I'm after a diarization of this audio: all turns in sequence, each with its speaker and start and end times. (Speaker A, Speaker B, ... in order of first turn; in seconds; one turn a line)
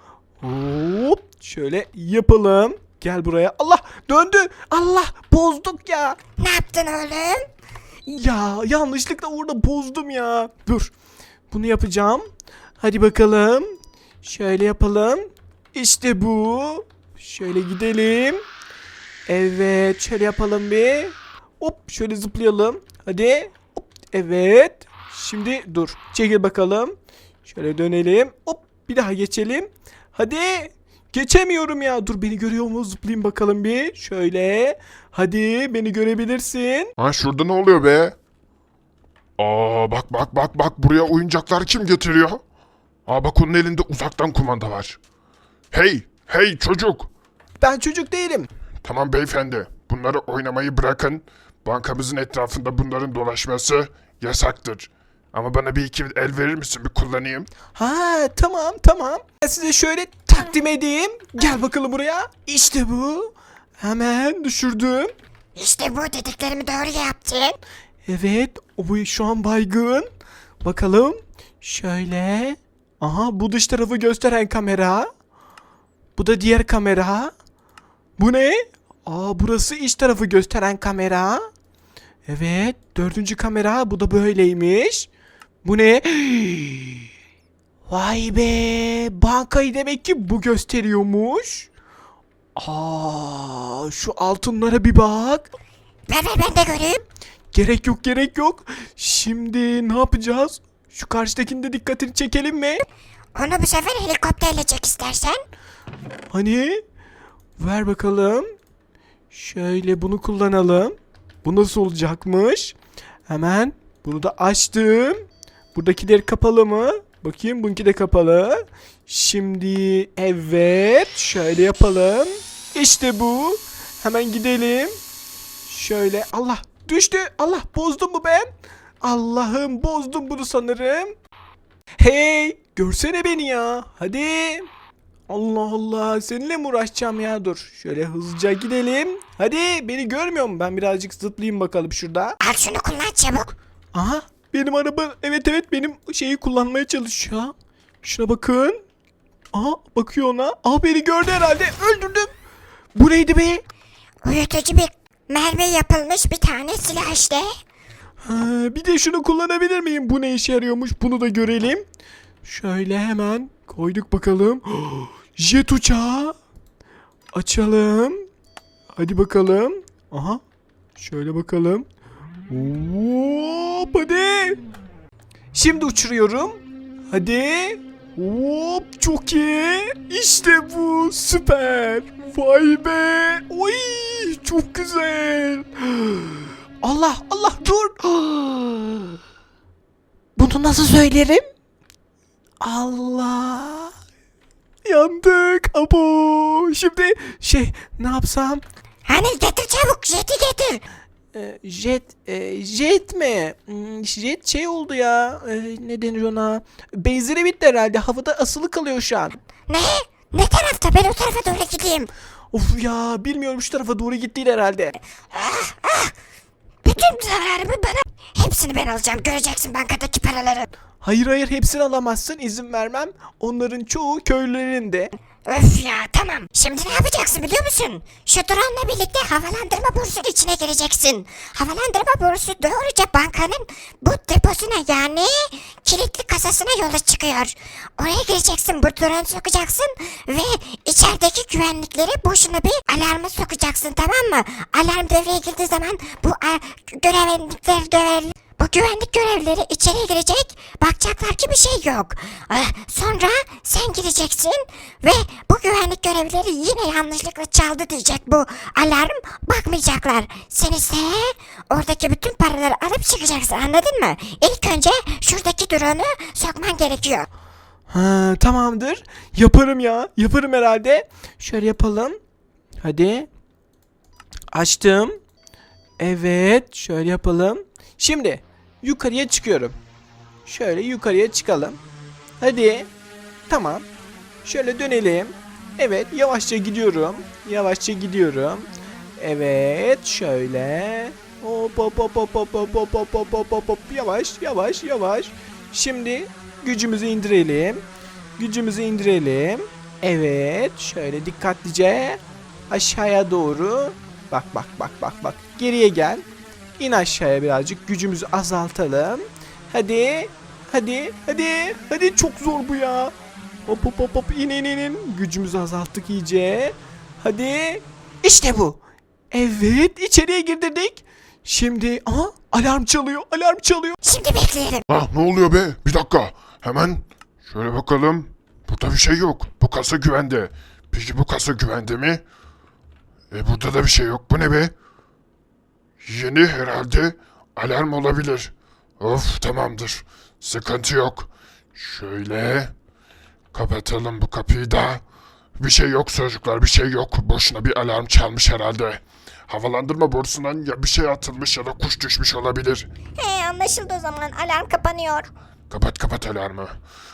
Speaker A: 0.4-6.2
Speaker B: 6.4-7.5
Speaker A: 8.1-10.9
Speaker A: 11.5-12.2
Speaker A: 12.8-18.4
Speaker A: 19.3-26.9
Speaker A: 27.4-36.9
Speaker C: 37.0-38.2
Speaker C: 39.4-42.4
Speaker C: 43.1-45.0
Speaker C: 45.7-47.1
Speaker A: 47.6-48.5
Speaker C: 48.8-57.5
Speaker A: 57.8-65.1
Speaker B: 65.6-67.6
Speaker A: 68.1-70.1
Speaker A: 70.6-75.1
Speaker A: 76.2-77.3
Speaker A: 78.2-81.5
Speaker A: 82.3-85.1
Speaker A: 85.6-87.0
Speaker A: 87.9-91.7
Speaker A: 92.6-95.5
Speaker B: 96.1-97.0
Speaker A: 97.5-102.8
Speaker B: 103.3-105.4
Speaker A: 106.3-106.8
Speaker A: 107.6-108.5
Speaker A: 109.3-112.8
Speaker A: 113.3-125.0
Speaker A: 125.7-128.5
Speaker A: 129.0-131.1
Speaker A: 132.0-134.7
Speaker A: 135.3-142.4
Speaker B: 142.4-143.5
Speaker A: 143.9-148.8
Speaker A: 149.5-152.3
Speaker A: 152.9-153.6
Speaker B: 154.2-157.5
Speaker A: 158.2-161.9
Speaker A: 162.4-166.4
Speaker A: 167.3-168.2
Speaker A: 169.0-170.4
Speaker A: 171.0-171.9
Speaker A: 172.5-174.6
Speaker A: 175.5-189.1
Speaker A: 190.4-191.5
Speaker A: 192.6-193.9
Speaker A: 194.9-198.6
Speaker B: 199.1-200.8
Speaker A: 201.3-209.3
Speaker B: 209.7-212.1
Speaker A: 212.5-214.9
Speaker B: 215.3-216.1
Speaker B: 216.8-220.7
Speaker A: 221.0-225.1
Speaker B: 225.5-267.3
Speaker A: 267.9-272.2
Speaker A: 272.8-273.3
Speaker A: 274.5-275.1
Speaker A: 276.0-279.8
Speaker A: 280.5-281.8
Speaker A: 282.4-282.9
Speaker A: 283.5-283.9
Speaker A: 284.4-288.7
Speaker A: 289.2-297.8
Speaker A: 298.4-306.3
Speaker A: 306.8-313.1
Speaker A: 313.7-318.8
Speaker A: 319.3-324.0
Speaker B: 324.0-324.9
Speaker C: 324.9-332.2
Speaker C: 333.3-334.7
Speaker C: 336.0-342.7
Speaker C: 343.5-345.0
Speaker C: 345.6-352.9
Speaker B: 353.2-355.3
Speaker C: 355.7-356.7